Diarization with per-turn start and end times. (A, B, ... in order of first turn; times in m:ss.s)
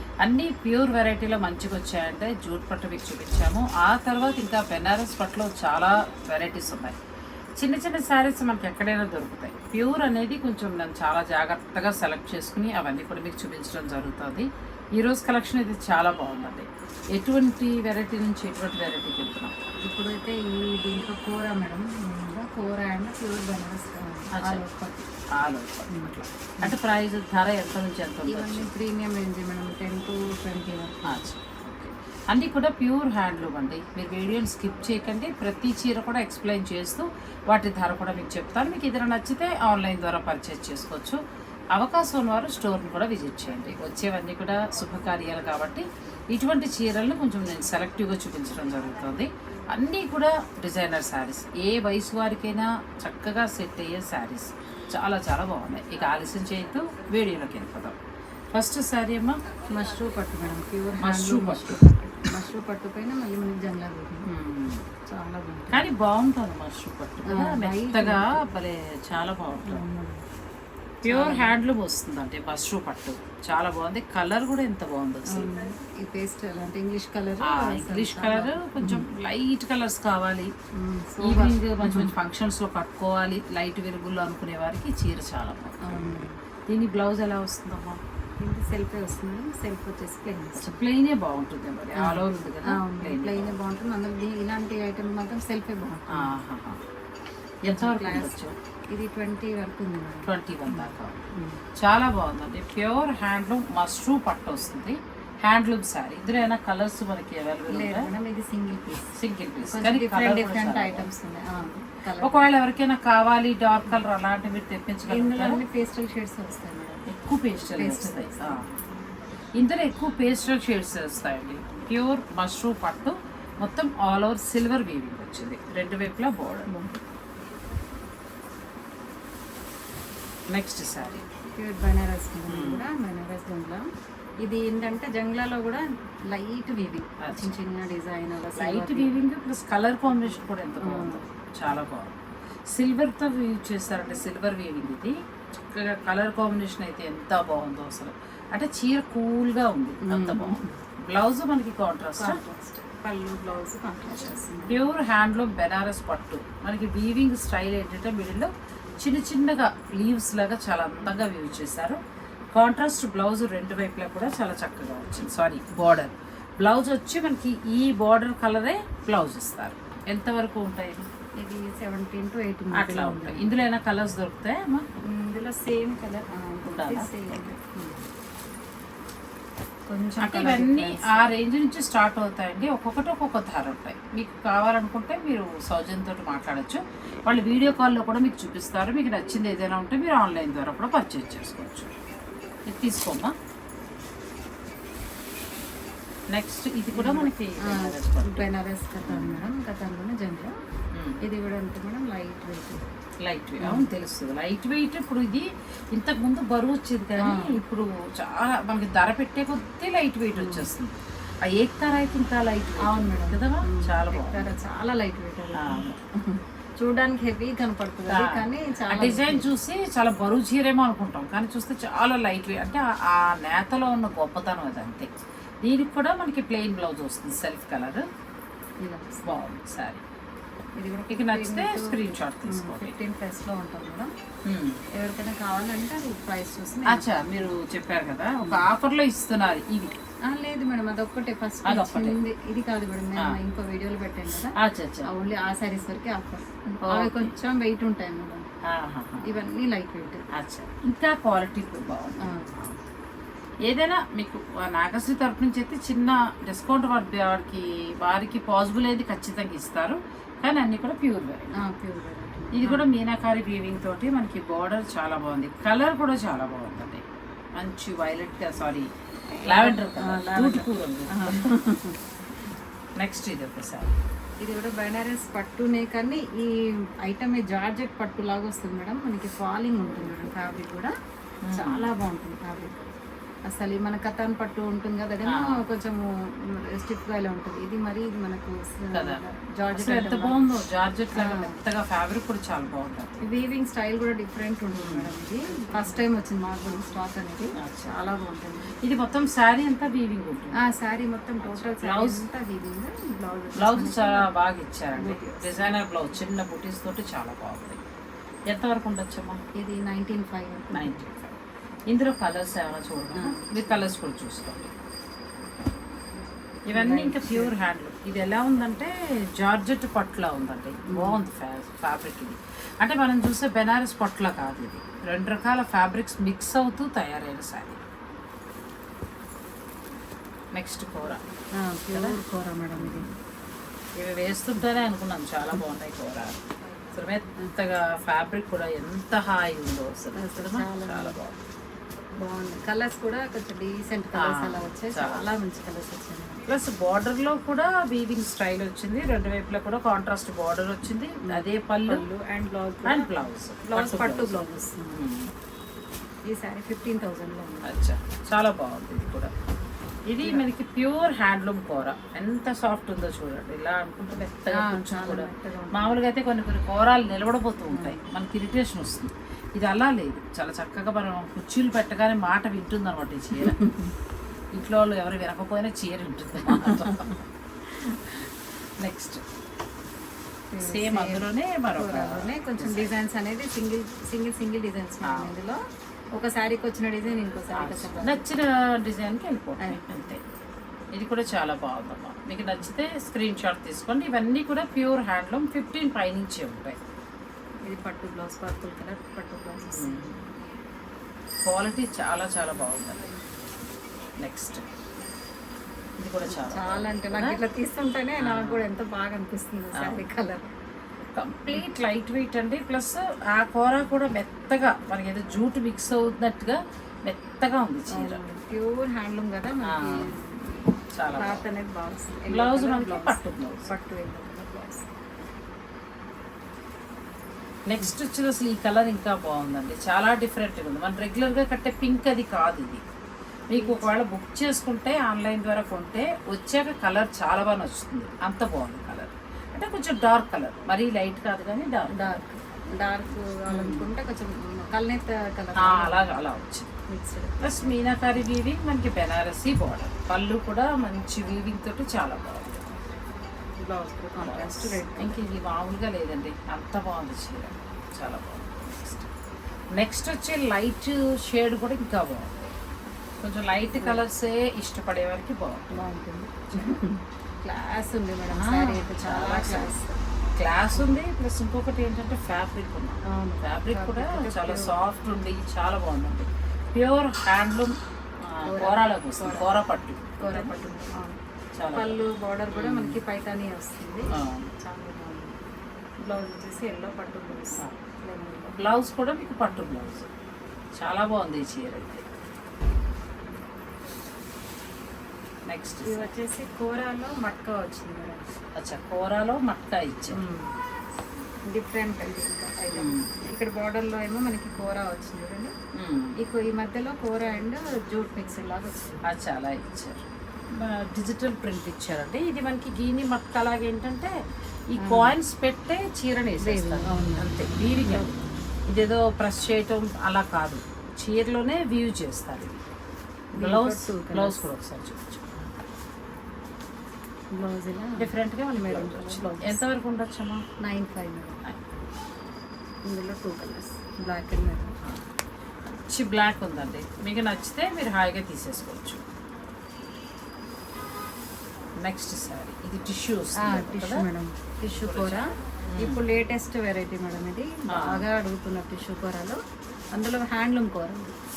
0:00.2-0:07.0 A
0:07.6-0:19.5 A
0:19.8-0:25.0 B
0:24.4-0:24.6 A
0:25.3-0:28.7 A
0:25.9-0:26.8 B
0:28.2-0:31.2 B
0:31.1-0:41.2 A
0:41.7-0:58.0 A
0:58.5-0:59.4 A
0:59.7-1:04.3 B
1:01.0-1:01.8 A
1:04.2-1:04.9 A
1:05.1-1:05.9 B
1:05.7-1:09.8 A
1:07.2-1:08.4 B
1:09.6-1:10.2 B
1:11.0-1:15.7 A
1:11.1-1:11.6 B
1:15.3-1:19.1 B
1:17.4-1:20.5 A
1:20.8-1:22.1 B
1:21.2-1:28.0 A
1:25.8-1:26.4 B
1:28.4-1:30.8 B
1:30.6-1:33.6 A
1:32.0-1:36.3 B
1:36.1-1:36.8 A
1:37.6-1:38.5 A
1:37.7-1:38.3 B
1:38.9-1:41.6 B
1:40.2-1:41.2 A
1:41.8-1:48.1 A
1:47.7-1:49.1 B
1:49.2-1:51.1 A
1:49.6-1:52.5 B
1:52.2-1:55.6 A
1:55.1-1:57.1 B
1:57.1-1:58.7 A
1:57.7-1:58.6 B
1:59.5-2:06.7 A
2:06.7-2:07.0 B
2:10.5-2:11.2 A
2:11.6-2:13.8 B
2:12.5-2:12.9 A
2:14.4-2:19.2 B
2:17.2-2:17.6 A
2:18.6-2:22.2 A
2:20.8-2:21.2 B
2:22.7-2:25.2 A
2:25.7-2:32.4 A
2:30.0-2:30.7 B
2:32.2-2:34.8 B
2:34.6-2:42.0 A
2:42.5-2:51.1 A
2:51.4-2:53.6 B
2:52.7-2:54.8 A
2:55.0-2:58.0 B
2:56.7-2:57.1 A
2:59.9-3:01.3 B
3:00.2-3:11.9 A
3:12.7-3:13.3 A
3:16.3-3:18.5 A
3:16.9-3:20.6 B
3:19.0-3:19.4 A
3:20.9-3:21.2 A
3:21.2-3:22.9 B
3:23.2-3:34.5 A
3:23.6-3:23.9 B
3:27.2-3:27.6 B
3:30.4-3:30.7 B
3:32.8-3:39.5 B
3:35.6-3:36.0 A
3:38.1-3:45.1 A
3:45.6-3:48.0 A
3:48.8-3:49.2 B
3:49.2-3:50.0 A
3:50.8-3:54.1 B
3:51.1-3:53.0 A
3:54.5-3:54.8 A
3:55.0-3:57.6 B
3:56.9-4:00.0 A
4:00.3-4:08.5 B
4:01.6-4:02.2 A
4:04.6-4:05.1 A
4:06.8-4:07.3 A
4:08.6-4:09.4 A
4:09.2-4:10.2 B
4:10.3-4:12.8 A
4:12.2-4:12.5 B
4:13.6-4:21.6 A
4:21.6-4:22.8 B
4:22.5-4:27.0 A
4:27.6-4:28.9 A
4:29.4-4:32.0 B
4:29.4-4:31.5 A
4:33.0-4:34.0 A
4:34.4-4:40.9 B
4:41.4-4:41.9 A
4:41.5-4:42.8 B
4:43.5-4:50.5 B
4:45.2-4:45.6 A
4:48.9-4:49.2 A
4:49.7-4:53.2 A
4:51.2-4:51.6 B
4:53.2-4:58.8 B
4:54.7-4:55.1 A
4:57.6-4:57.9 A
4:58.8-5:00.6 A
5:00.6-5:04.3 B
5:01.4-5:02.2 A
5:03.6-5:07.8 A
5:04.9-5:05.8 B
5:08.5-5:09.4 A
5:09.6-5:11.0 B
5:10.7-5:14.7 A
5:13.1-5:13.6 B
5:16.7-5:27.8 A
5:16.7-5:17.5 B
5:20.9-5:21.2 B
5:30.5-5:31.2 A
5:31.6-5:33.1 B
5:31.9-5:32.2 A
5:32.8-5:33.1 A
5:34.0-5:36.4 A
5:36.9-5:41.4 A
5:40.1-5:41.2 B
5:42.2-5:46.4 B
5:44.2-5:45.3 A
5:46.4-5:52.0 A
5:51.2-5:55.0 B
5:52.8-5:55.3 A
5:56.3-5:57.8 B
5:57.6-5:59.3 A
6:00.1-6:13.6 A
6:00.2-6:00.5 B
6:04.5-6:06.0 B
6:07.7-6:08.0 B
6:13.3-6:13.9 B
6:14.5-6:18.3 A
6:16.6-6:16.9 B
6:18.8-6:19.2 A
6:20.5-6:25.6 B
6:20.6-6:22.9 A
6:25.0-6:25.3 A
6:26.1-6:28.2 B
6:27.5-6:30.2 A
6:29.6-6:30.0 B
6:30.9-6:36.8 A
6:37.6-6:40.3 B
6:39.6-6:40.2 A
6:41.4-6:43.1 A
6:44.2-6:44.6 A
6:46.0-6:47.4 A
6:46.3-6:50.5 B
6:48.2-6:48.6 A
6:49.8-6:50.0 A
6:51.1-6:58.2 A
6:57.9-7:04.9 B
6:59.6-7:00.1 A
7:00.9-7:01.4 A
7:02.3-7:03.7 A
7:07.7-7:12.8 A
7:13.5-7:22.2 A
7:21.9-7:26.1 B
7:23.5-7:23.9 A
7:25.6-7:26.7 A
7:26.9-7:27.8 B
7:27.4-7:32.6 A
7:33.6-7:35.3 B
7:34.2-7:39.1 A
7:39.7-7:42.3 A
7:43.2-7:45.8 A
7:43.7-7:44.0 B
7:45.7-7:50.0 B
7:48.3-7:49.7 A
7:50.4-8:00.5 A
7:53.1-7:54.7 B
7:58.4-7:59.6 B
8:00.2-8:01.2 B
8:01.6-8:02.0 A
8:01.7-8:05.4 B
8:02.5-8:03.0 A
8:04.1-8:04.5 A
8:06.0-8:08.6 B
8:08.6-8:10.1 A
8:10.8-8:12.0 A
8:15.4-8:16.1 A
8:15.8-8:18.2 B
8:18.6-8:20.2 A
8:20.1-8:20.5 B
8:21.5-8:25.5 B
8:22.7-8:23.1 A
8:25.7-8:26.2 A
8:26.2-8:29.0 B
8:29.1-8:34.1 A
8:34.7-8:38.2 A
8:34.8-8:35.1 B
8:36.4-8:38.1 B
8:38.7-8:42.6 A
8:43.4-8:44.5 B
8:43.4-8:45.5 A
8:47.3-8:49.6 B
8:48.0-8:50.4 A
8:50.6-8:51.4 B
8:52.9-8:54.7 B
8:55.7-8:59.0 A
9:01.8-9:04.0 A
9:03.4-9:09.4 B
9:04.7-9:06.0 A
9:07.7-9:08.0 A
9:09.9-9:11.2 B